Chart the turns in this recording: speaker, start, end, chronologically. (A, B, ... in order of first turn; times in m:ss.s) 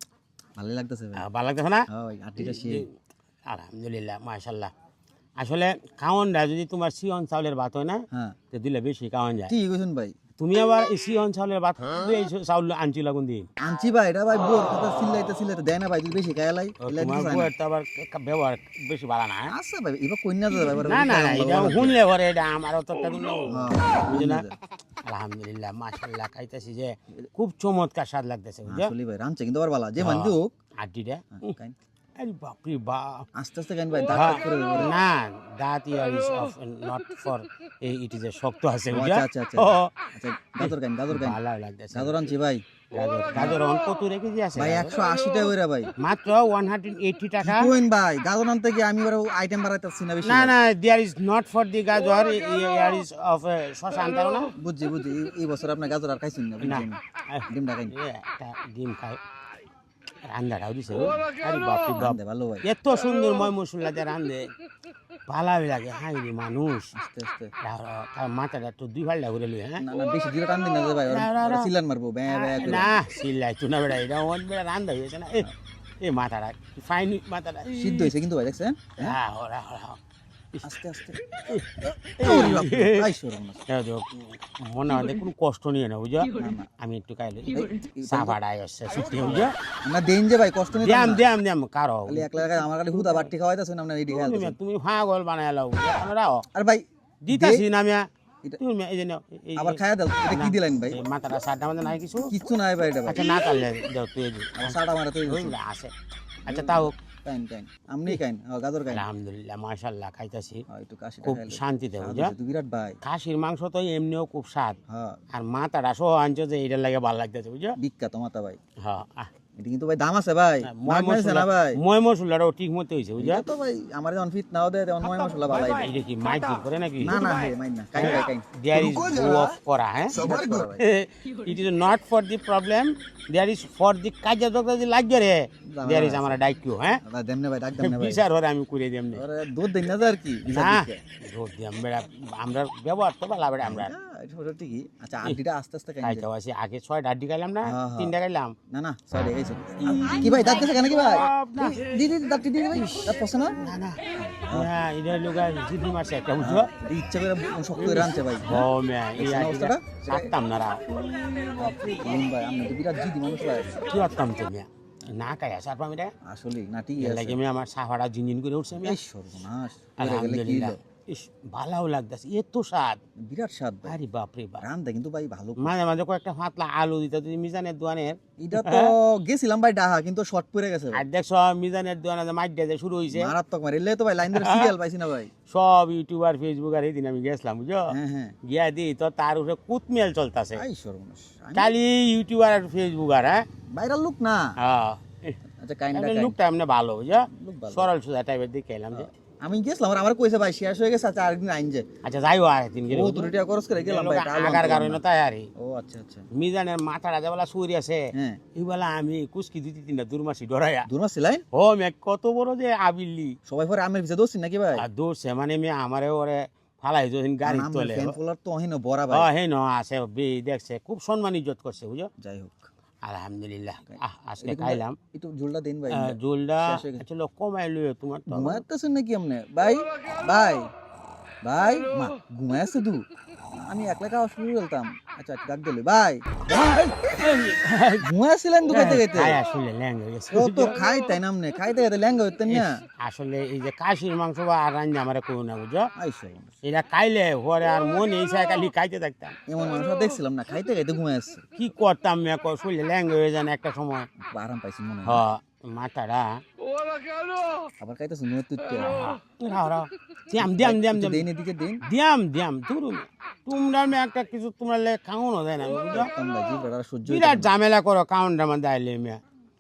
0:00.6-0:01.2 A
0:01.2-0:01.9 B
0:01.9-0:02.8 A
0:02.4-0:02.9 B
0:03.4-0:04.7 B
0:05.4-0:09.5 B
0:08.1-0:08.4 A
0:09.5-0:10.1 A
0:10.4-0:13.5 B
0:13.6-0:17.5 A
0:16.8-0:19.5 B
0:19.5-0:22.0 A
0:20.8-0:24.4 B
0:23.5-0:24.6 A
0:25.0-0:28.9 B
0:28.7-0:30.5 A
0:30.0-0:31.6 B
0:31.3-0:31.8 A
0:32.2-0:33.3 B
0:33.4-0:34.9 A
0:34.1-0:39.9 B
0:38.9-0:41.4 A
0:40.6-0:42.3 B
0:41.9-0:42.6 A
0:42.9-0:45.0 B
0:43.4-0:43.6 A
0:44.6-0:45.9 A
0:46.0-0:47.7 B
0:47.4-0:50.6 A
0:50.2-0:54.5 B
0:54.6-0:57.9 A
0:56.6-0:59.2 B
1:00.2-1:04.5 B
1:02.0-1:02.7 A
1:05.3-1:06.9 B
1:07.0-1:07.5 A
1:07.6-1:09.8 B
1:09.8-1:12.9 A
1:11.1-1:11.7 B
1:12.3-1:15.5 B
1:16.0-1:18.2 B
1:17.7-1:19.2 A
1:19.0-1:20.0 B
1:20.6-1:21.2 A
1:21.5-1:23.1 B
1:22.2-1:23.6 A
1:23.7-1:29.6 B
1:26.3-1:26.7 A
1:27.5-1:28.4 A
1:29.8-1:31.3 A
1:30.8-1:33.3 B
1:32.1-1:34.6 A
1:34.1-1:36.5 B
1:36.5-1:37.6 A
1:37.2-1:38.1 B
1:38.6-1:42.3 B
1:39.6-1:41.0 A
1:42.2-1:43.2 A
1:43.1-1:45.9 B
1:44.6-1:45.6 A
1:46.5-1:46.9 B
1:46.5-1:49.1 A
1:48.9-1:50.6 B
1:50.7-1:53.0 A
1:51.2-1:52.3 B
1:53.0-1:54.8 B
1:54.9-1:55.2 A
1:55.3-1:57.8 B
1:57.8-1:58.6 A
1:58.8-1:59.3 B
1:59.6-2:01.8 A
2:00.6-2:03.4 B
2:03.2-2:05.9 A
2:05.6-2:07.2 B
2:07.0-2:09.5 A
2:08.0-2:17.0 B
2:10.1-2:10.8 A
2:15.7-2:16.4 A
2:17.0-2:18.2 A
2:17.8-2:19.2 B
2:19.1-2:21.0 A
2:20.5-2:23.9 B
2:23.6-2:26.3 A
2:26.0-2:28.5 B
2:27.7-2:28.1 A
2:28.7-2:34.7 A
2:29.8-2:31.8 B
2:32.7-2:34.0 B
2:34.5-2:36.7 B
2:36.4-2:40.3 A
2:37.8-2:41.4 B
2:41.4-2:43.8 A
2:43.9-2:46.1 B
2:46.2-2:47.4 A
2:47.0-2:49.0 B
2:48.8-2:50.8 A
2:50.0-2:53.0 B
2:53.2-2:54.0 A
2:53.8-2:54.6 B
2:54.6-2:55.7 A
2:55.6-2:58.9 B
2:58.4-3:01.0 A
3:00.9-3:03.3 B
3:03.1-3:05.3 A
3:04.3-3:04.7 B
3:05.5-3:07.9 B
3:07.9-3:08.4 A
3:08.4-3:10.6 B
3:10.6-3:11.8 A
3:11.6-3:13.5 B
3:13.7-3:14.6 A
3:14.6-3:15.4 B
3:15.6-3:16.4 A
3:15.9-3:19.1 B
3:17.3-3:17.9 A
3:18.9-3:21.9 A
3:22.0-3:25.5 B
3:22.9-3:25.0 A
3:25.6-3:26.3 A
3:26.3-3:30.9 B
3:28.1-3:28.4 A
3:30.9-3:31.4 A
3:31.5-3:33.4 B
3:33.5-3:34.8 A
3:34.8-3:38.2 B
3:37.4-3:39.3 A
3:39.1-3:42.1 B
3:42.2-3:42.7 A
3:43.0-3:45.0 B
3:43.9-3:47.0 A
3:45.9-3:48.6 B
3:48.3-3:50.7 A
3:51.4-3:57.0 A
3:57.2-3:58.1 B
3:58.0-3:59.4 A
3:58.7-4:00.8 B
4:00.3-4:02.8 A
4:02.5-4:05.9 B
4:06.0-4:06.6 A
4:06.6-4:09.4 B
4:09.5-4:11.4 A
4:11.6-4:14.1 B
4:14.3-4:15.2 A
4:15.0-4:16.4 B
4:17.8-4:19.2 A
4:18.8-4:21.3 B
4:20.4-4:21.8 A
4:21.8-4:26.1 B
4:25.9-4:27.5 A
4:27.1-4:29.2 B